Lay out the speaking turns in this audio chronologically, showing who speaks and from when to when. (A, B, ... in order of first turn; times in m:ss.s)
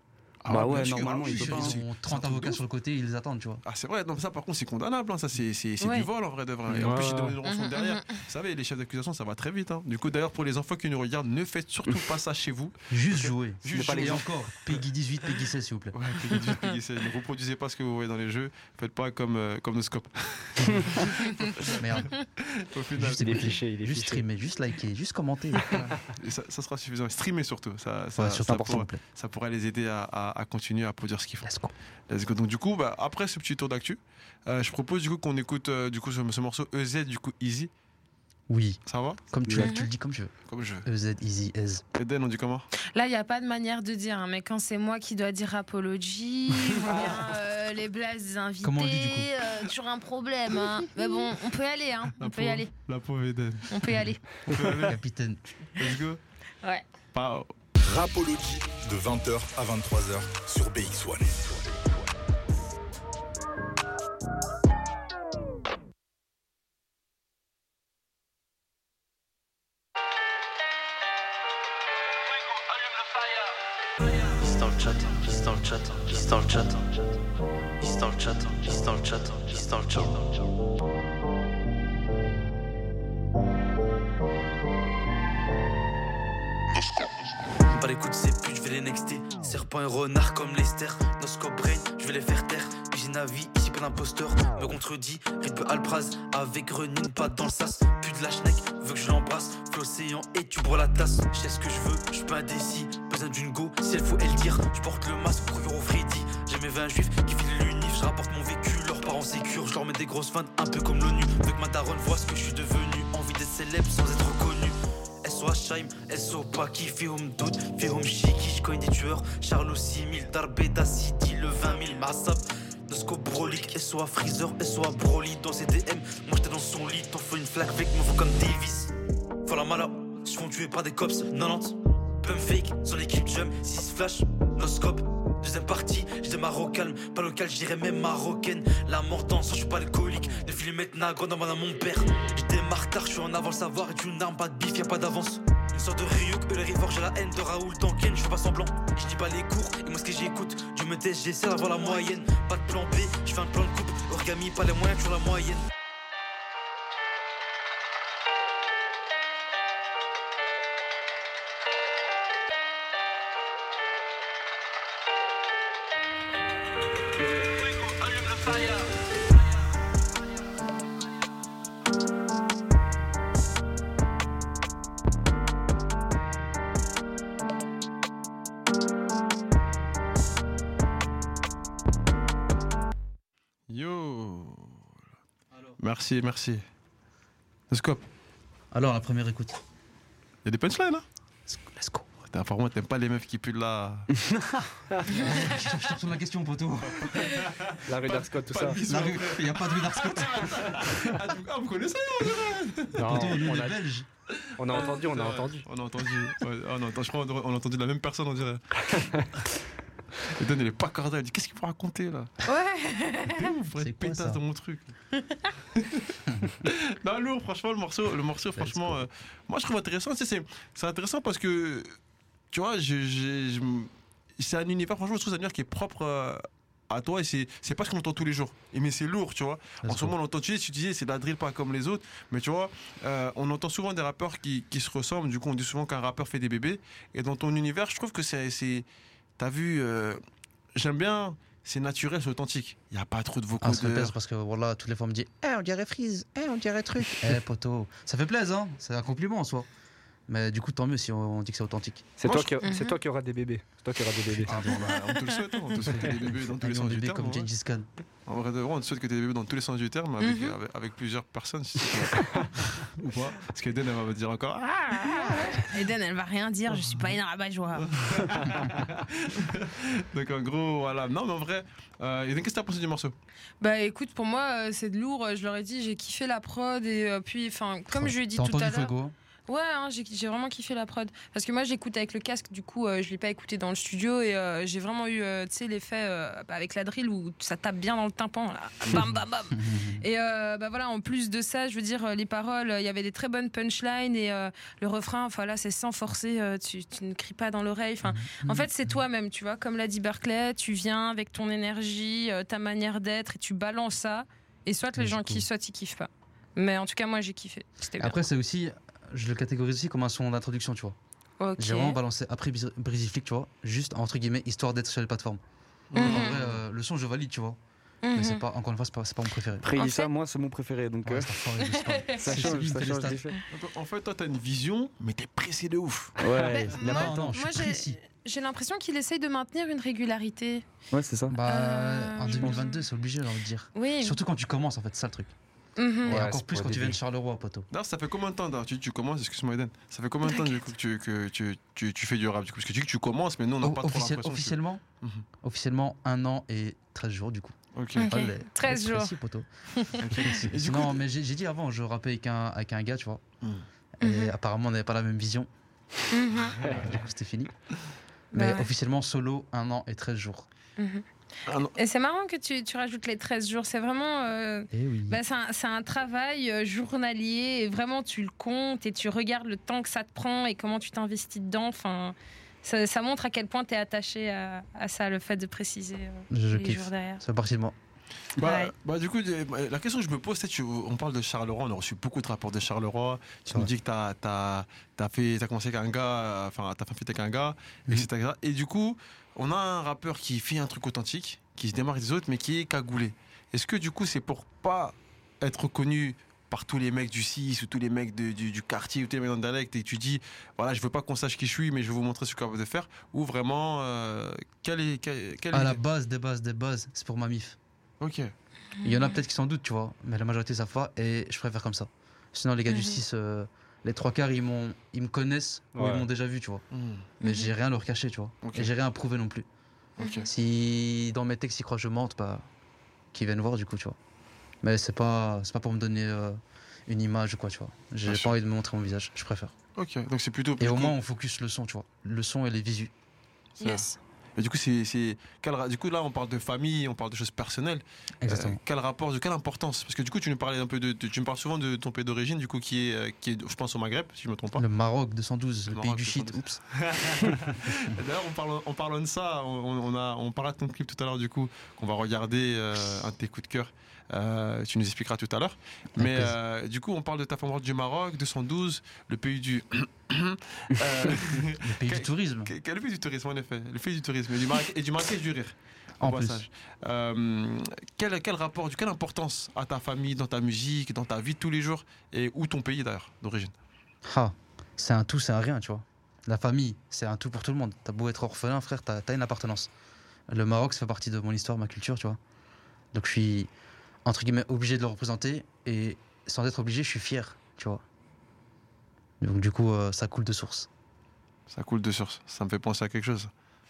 0:00.4-0:02.6 A
0:00.5-0:01.8 B
0:00.5-0:03.6 C
0:03.6-0:14.8 A
0:05.8-0:06.1 D
0:06.7-0:07.4 E
0:07.4-0:08.2 D
0:12.9-0:15.9 C
0:13.7-0:14.2 B
0:15.9-0:23.5 A
0:21.7-0:22.1 C
0:23.0-0:25.8 C
0:23.1-0:24.2 E
0:25.7-0:31.5 A
0:28.2-0:29.0 C
0:31.4-0:31.7 C
0:32.1-0:37.7 A
0:38.5-0:40.3 C
0:38.9-0:39.7 A
0:39.5-0:39.9 D
0:40.5-0:40.8 A
0:40.8-0:41.8 C
0:41.9-0:42.7 A
0:42.9-0:52.7 D
0:48.6-0:49.3 C
0:52.2-0:54.0 A
0:53.7-0:54.2 D
0:54.5-0:55.0 A
0:54.8-0:55.4 C
0:55.8-0:56.2 A
0:57.1-0:57.5 A
0:57.8-1:02.2 F
1:12.8-1:13.2 G
1:14.2-1:16.8 G
1:17.8-1:20.4 G
1:27.6-2:35.7 G
3:03.7-3:04.9 A
3:05.8-3:06.6 A
3:07.7-3:08.0 A
3:08.7-3:09.6 C
3:10.4-3:11.0 A
3:11.5-3:12.0 C
3:12.2-3:14.1 A
3:14.3-3:14.6 B
3:15.1-3:15.5 A
3:15.1-3:17.4 C
3:16.8-3:23.5 A
3:17.9-3:18.8 E
3:18.7-3:20.8 C
3:23.0-3:23.8 E
3:23.0-3:24.1 C
3:24.6-3:25.7 E
3:24.7-3:29.2 A
3:28.9-3:29.2 E
3:30.2-3:32.4 A
3:32.4-3:33.5 D
3:33.3-3:34.9 A
3:33.8-3:34.4 C
3:35.1-3:35.4 D
3:35.7-3:41.9 A
3:38.6-3:39.0 C
3:42.5-3:58.8 A
3:49.8-3:50.1 C
3:59.4-4:00.2 A
4:00.8-4:04.2 A
4:03.6-4:09.7 C
4:10.3-4:12.1 C
4:12.2-4:14.5 E
4:12.2-4:12.5 A
4:12.6-4:13.0 D
4:14.4-4:15.1 C
4:14.5-4:17.5 A
4:15.8-4:17.9 C
4:18.3-4:25.7 A
4:20.2-4:20.6 D
4:25.0-4:28.4 D
4:27.8-4:33.1 A
4:33.6-4:38.9 D
4:37.9-4:39.1 C
4:39.5-5:08.2 D
4:49.5-4:50.0 C
4:58.0-4:59.0 C
5:04.9-5:05.5 C
5:08.0-5:11.0 C
5:11.4-5:12.0 D
5:11.6-5:15.4 C
5:15.9-5:16.6 A
5:15.9-5:17.6 C
5:16.0-5:16.4 D
5:18.0-5:18.4 D
5:18.1-5:19.8 C
5:19.6-5:21.5 B
5:19.8-5:20.1 D
5:21.0-5:23.2 C
5:21.7-5:22.2 D
5:22.2-5:23.4 B
5:23.5-5:26.2 A
5:26.2-5:27.4 B
5:26.2-5:26.6 E
5:26.4-5:30.6 D
5:26.8-5:28.0 C
5:30.9-5:31.4 B
5:31.3-5:35.3 C
5:31.4-5:32.8 D
5:33.7-5:34.2 D
5:35.8-5:36.2 D
5:36.0-5:37.0 E
5:36.0-5:37.7 C
5:37.7-5:45.2 A
5:40.2-5:40.6 D
5:43.6-5:44.8 C
5:45.4-5:49.5 C
5:47.7-5:48.1 A
5:48.0-5:49.2 D
5:49.7-5:50.0 D
5:50.0-5:51.0 A
5:50.3-5:53.2 C
5:54.0-5:55.5 C
5:54.0-5:54.3 D
5:56.1-5:56.7 D
5:56.5-5:57.0 A
5:56.6-5:57.5 C
5:58.3-5:58.7 D
5:58.3-6:00.5 C
6:00.8-6:01.0 D
6:01.4-6:01.8 A
6:01.8-6:17.2 D
6:04.7-6:05.2 C
6:16.3-6:17.8 C
6:18.4-6:45.8 A
6:18.4-6:18.7 D
6:45.5-6:47.6 C
6:48.0-6:48.3 A
6:48.8-6:49.2 D
6:48.8-6:56.6 C
6:52.7-6:53.0 D
6:55.7-6:56.1 E
6:56.7-6:57.1 A
6:57.2-6:57.5 D
6:57.2-6:59.5 C
6:58.4-6:58.7 A
7:00.0-7:00.3 A
7:00.0-7:00.2 D
7:00.3-7:02.5 C
7:03.1-7:04.0 C
7:04.6-7:09.5 C
7:08.0-7:08.4 A
7:09.8-7:11.0 A
7:10.6-7:12.9 C
7:13.6-7:14.0 D
7:13.6-7:24.6 A
7:18.2-7:18.6 C
7:24.6-7:26.6 C
7:25.7-7:53.5 A
7:36.0-7:36.3 C
7:41.6-7:42.5 C
7:46.0-7:46.5 C
7:54.0-7:59.7 C
8:00.3-8:02.2 C
8:02.9-8:03.5 C
8:04.0-8:07.8 C
8:09.2-8:10.7 C
8:11.5-8:13.3 A